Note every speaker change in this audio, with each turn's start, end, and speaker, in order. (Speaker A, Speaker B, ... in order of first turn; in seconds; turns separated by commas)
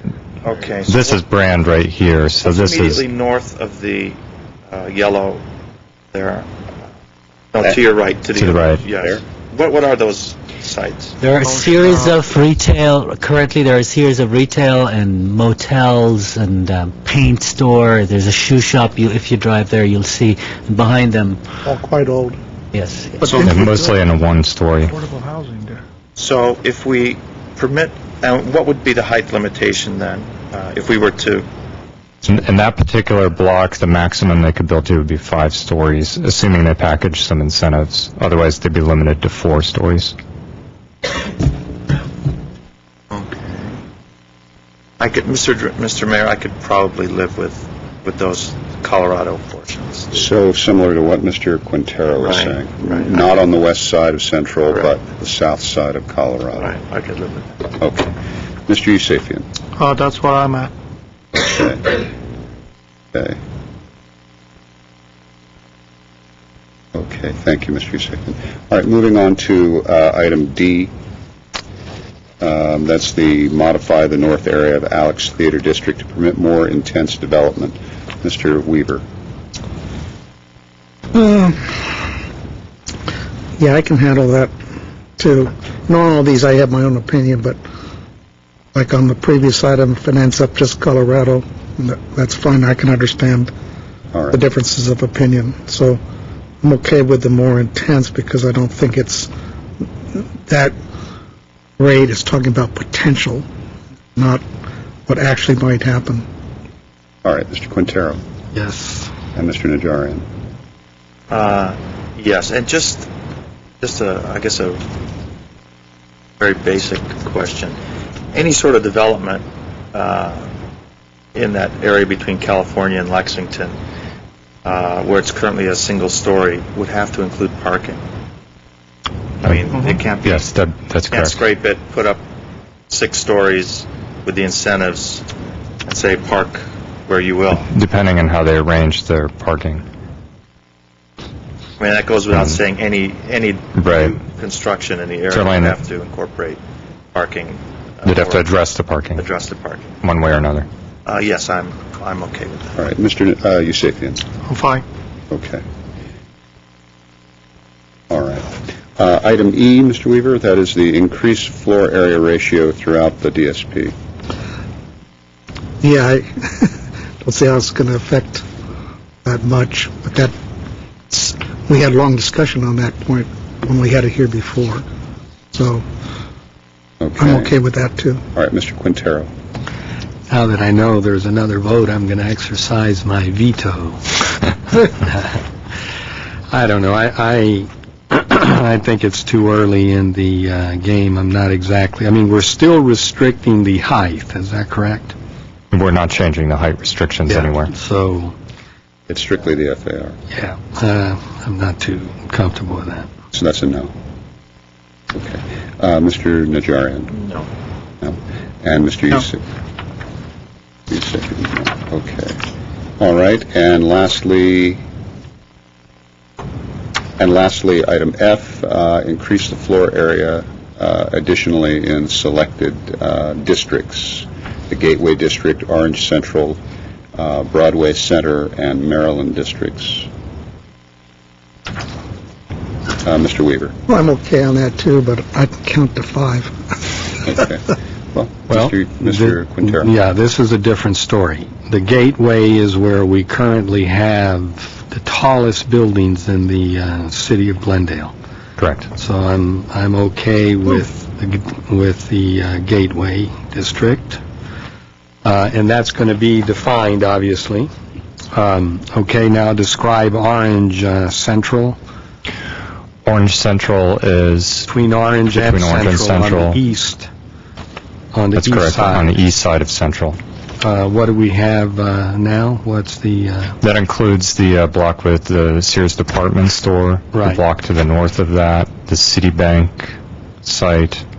Speaker A: 0.4-1.2, Speaker B: 0.9-3.0, Speaker A: 2.4-4.2, Speaker A: 4.7-5.4, Speaker A: 6.1-6.5, Speaker A: 7.5-11.2, Speaker B: 8.3-8.8, Speaker C: 8.9-9.2, Speaker D: 11.2-21.4, Speaker E: 11.4-12.2, Speaker F: 21.7-22.4, Speaker D: 22.7-23.7, Speaker E: 23.2-23.9, Speaker B: 23.4-25.0, Speaker E: 24.9-25.7, Speaker A: 26.2-31.4, Speaker B: 32.2-40.1, Speaker A: 43.1-43.4, Speaker A: 45.0-50.2, Speaker C: 50.1-56.7, Speaker A: 52.2-53.2, Speaker A: 56.6-57.7, Speaker C: 57.8-58.2, Speaker C: 58.7-59.5, Speaker E: 59.8-60.7, Speaker C: 61.3-62.0, Speaker C: 63.1-63.4, Speaker C: 66.9-70.9, Speaker C: 72.4-79.0, Speaker F: 81.1-81.9, Speaker F: 83.6-84.5, Speaker F: 85.2-87.6, Speaker F: 88.7-93.5, Speaker C: 94.1-94.4, Speaker F: 94.3-96.0, Speaker F: 96.6-99.3, Speaker F: 100.4-100.7, Speaker F: 101.8-103.4, Speaker F: 104.1-104.4, Speaker F: 105.0-106.2, Speaker C: 107.2-108.2, Speaker G: 108.5-109.1, Speaker C: 109.3-110.2, Speaker A: 111.3-113.1, Speaker A: 113.8-114.8, Speaker A: 116.4-117.8, Speaker A: 118.3-120.5, Speaker A: 121.3-123.8, Speaker A: 124.6-128.0, Speaker A: 129.4-130.5, Speaker B: 130.2-131.4, Speaker A: 131.1-132.2, Speaker A: 132.9-135.2, Speaker A: 135.8-137.7, Speaker B: 137.7-139.8, Speaker A: 141.8-146.6, Speaker B: 143.8-144.2, Speaker B: 145.3-145.8, Speaker A: 147.1-148.5, Speaker B: 148.1-149.3, Speaker A: 149.2-150.0, Speaker B: 150.0-150.7, Speaker A: 151.1-152.8, Speaker C: 152.8-154.2, Speaker E: 154.5-154.8, Speaker C: 155.3-155.6, Speaker C: 158.1-163.9, Speaker F: 165.8-168.4, Speaker F: 169.2-170.3, Speaker F: 171.1-174.8, Speaker F: 175.5-175.8, Speaker C: 177.0-177.5, Speaker F: 177.2-178.2, Speaker C: 178.3-179.3, Speaker G: 180.3-185.4, Speaker G: 186.5-195.2, Speaker B: 195.7-197.7, Speaker G: 197.3-198.3, Speaker C: 199.1-200.2, Speaker G: 200.3-203.1, Speaker C: 203.3-203.9, Speaker C: 205.1-207.3, Speaker C: 208.0-209.4, Speaker C: 210.9-212.4, Speaker C: 213.0-214.8, Speaker C: 217.2-226.6, Speaker C: 227.2-230.1, Speaker C: 233.0-233.8, Speaker F: 233.9-237.0, Speaker C: 237.2-239.9, Speaker G: 238.5-248.1, Speaker B: 248.6-248.9, Speaker G: 249.0-254.2, Speaker G: 255.2-257.7, Speaker G: 258.3-261.8, Speaker B: 263.0-264.7, Speaker G: 264.7-267.1, Speaker B: 265.3-266.6, Speaker G: 268.1-269.1, Speaker B: 268.4-270.2, Speaker G: 270.6-273.6, Speaker B: 273.6-281.0, Speaker G: 277.1-277.4